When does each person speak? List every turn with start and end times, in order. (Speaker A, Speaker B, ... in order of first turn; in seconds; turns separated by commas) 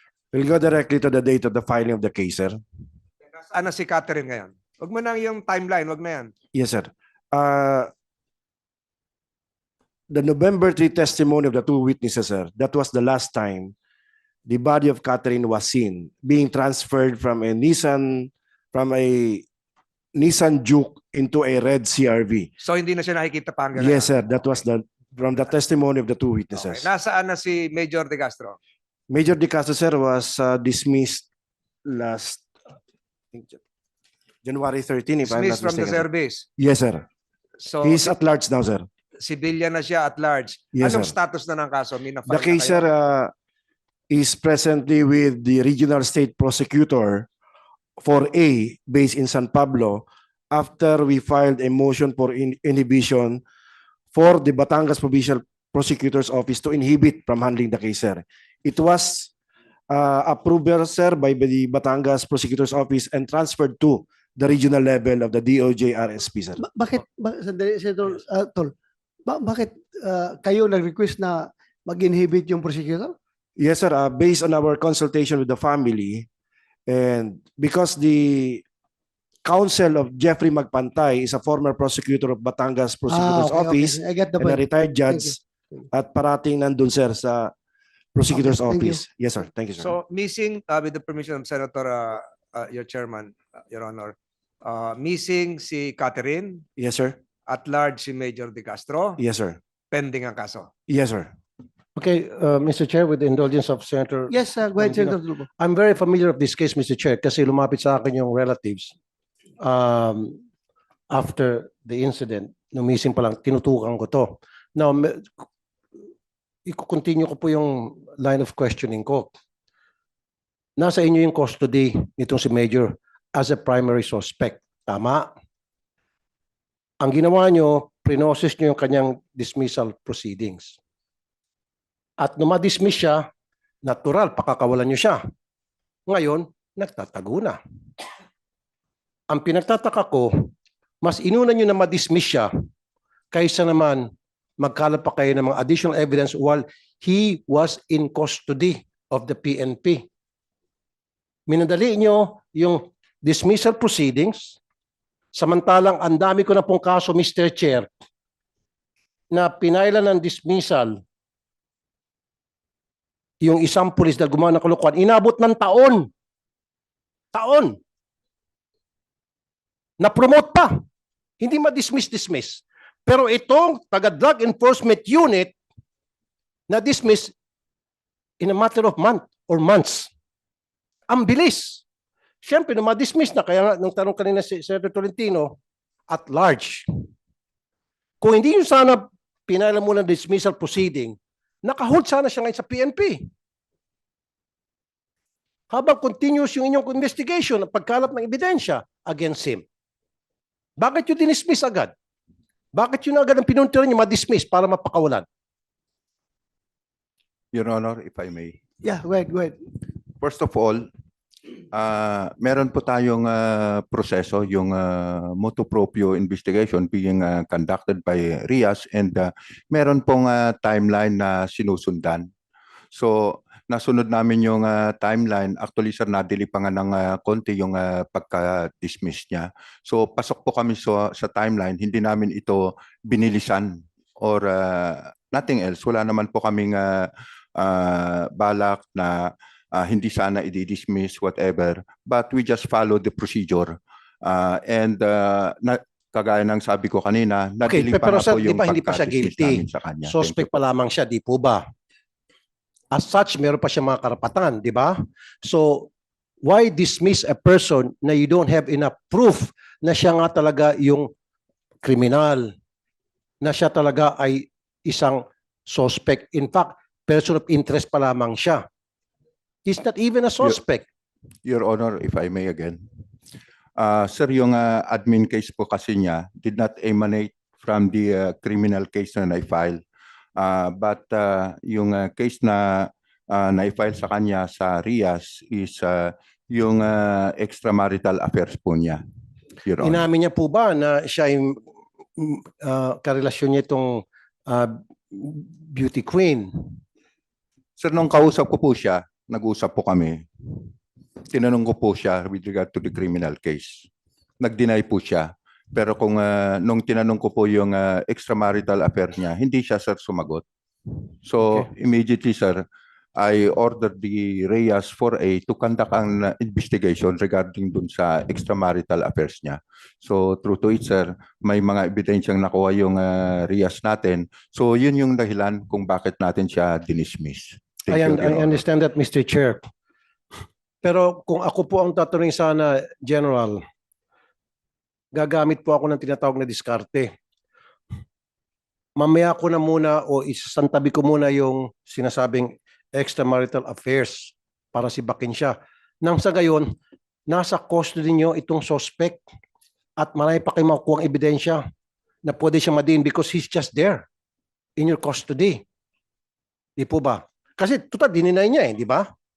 Speaker A: 0.3-2.6, Speaker B: 3.5-6.3, Speaker A: 6.5-7.9, Speaker A: 10.1-13.7, Speaker A: 14.4-19.4, Speaker A: 20.1-22.5, Speaker B: 22.6-24.1, Speaker A: 23.7-26.9, Speaker B: 26.5-28.6, Speaker A: 29.1-31.2, Speaker A: 31.8-32.5, Speaker A: 33.3-33.6, Speaker A: 34.4-36.0, Speaker B: 35.2-36.5, Speaker A: 36.6-37.0, Speaker B: 37.6-38.1, Speaker A: 37.8-38.9, Speaker B: 39.2-42.8, Speaker A: 40.7-41.1, Speaker A: 42.3-43.3, Speaker A: 44.1-47.3, Speaker A: 48.0-53.4, Speaker A: 54.1-59.3, Speaker A: 59.9-66.6, Speaker C: 66.6-68.7, Speaker C: 69.2-73.1, Speaker A: 73.6-76.3, Speaker A: 76.9-78.6, Speaker A: 79.4-85.4, Speaker C: 83.1-85.3, Speaker A: 85.9-87.5, Speaker A: 88.1-89.9, Speaker C: 88.3-89.0, Speaker B: 89.8-96.7, Speaker A: 96.8-97.2, Speaker B: 97.5-99.2, Speaker A: 99.2-99.6, Speaker B: 99.9-100.7, Speaker A: 100.9-101.3, Speaker D: 102.0-108.9, Speaker C: 104.3-105.5, Speaker D: 109.6-110.4, Speaker D: 111.1-115.4, Speaker D: 116.7-119.3, Speaker D: 120.8-125.3, Speaker D: 127.0-130.8, Speaker D: 132.2-133.3, Speaker D: 133.8-135.2, Speaker D: 136.1-137.6, Speaker D: 139.3-140.5, Speaker D: 141.0-142.5, Speaker D: 143.3-150.1, Speaker D: 151.5-154.6, Speaker D: 155.3-157.9, Speaker D: 159.3-161.0, Speaker D: 163.4-166.1, Speaker D: 167.3-167.8, Speaker D: 170.0-170.8, Speaker D: 171.4-175.6, Speaker D: 176.7-177.3, Speaker D: 178.4-180.1, Speaker D: 181.1-181.8, Speaker D: 182.4-185.6, Speaker D: 186.1-187.1, Speaker D: 188.2-193.2, Speaker D: 195.7-199.6, Speaker D: 200.8-201.9, Speaker D: 202.7-205.2, Speaker E: 207.5-208.6, Speaker C: 208.8-209.6, Speaker E: 210.2-210.9, Speaker E: 211.7-222.3, Speaker E: 222.9-250.5, Speaker D: 247.7-251.7, Speaker D: 252.9-255.9, Speaker D: 256.4-261.1, Speaker D: 261.8-262.5, Speaker D: 263.4-268.6, Speaker D: 269.6-270.9, Speaker E: 271.4-272.8, Speaker E: 273.8-279.8, Speaker E: 280.4-289.0, Speaker E: 289.6-290.0, Speaker D: 289.8-291.6, Speaker D: 292.2-296.8, Speaker E: 297.8-300.2, Speaker E: 301.3-303.9, Speaker E: 304.4-310.4, Speaker E: 311.0-312.6, Speaker E: 313.2-328.6, Speaker D: 327.9-329.7, Speaker D: 330.8-333.6, Speaker D: 335.1-337.1, Speaker D: 339.0-346.7, Speaker D: 347.3-349.2, Speaker D: 350.0-351.6, Speaker D: 352.2-354.1, Speaker D: 354.8-355.6, Speaker D: 356.8-359.1